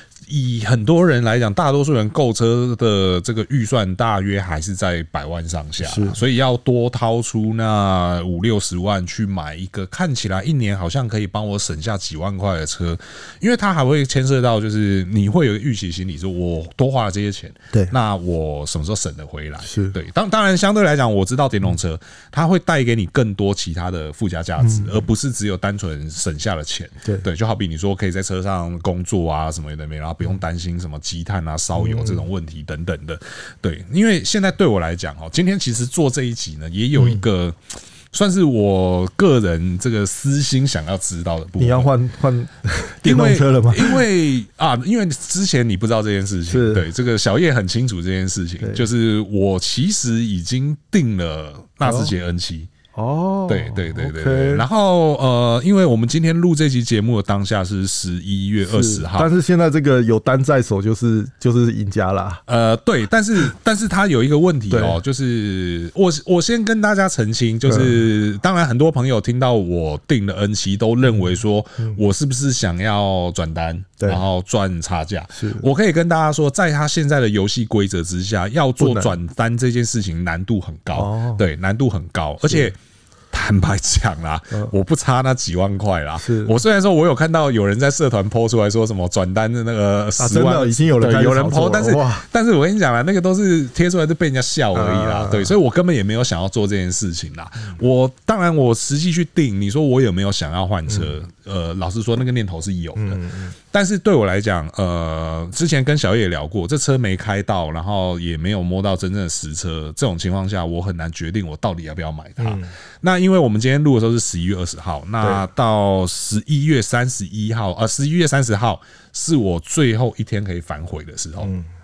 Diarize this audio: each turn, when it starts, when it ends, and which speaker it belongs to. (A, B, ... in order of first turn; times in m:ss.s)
0:00.3-0:41.9 A
0:05.8-0:06.2 B
0:19.7-0:20.0 B
0:24.6-0:25.0 B
0:31.8-0:32.2 B
0:37.0-0:37.2 B
0:41.6-0:44.0 B
0:43.0-0:52.7 A
0:46.5-0:46.9 B
0:51.8-0:52.1 B
0:52.9-0:54.6 B
0:53.5-0:59.3 A
0:58.6-1:02.4 B
1:02.5-1:22.8 A
1:04.7-1:05.0 B
1:07.7-1:08.0 B
1:15.4-1:15.7 B
1:18.8-1:19.1 B
1:20.9-1:21.4 B
1:23.3-2:01.5 A
1:26.2-1:26.6 B
1:30.2-1:32.2 B
1:34.7-1:35.6 B
1:43.0-1:43.6 B
1:52.4-1:52.7 B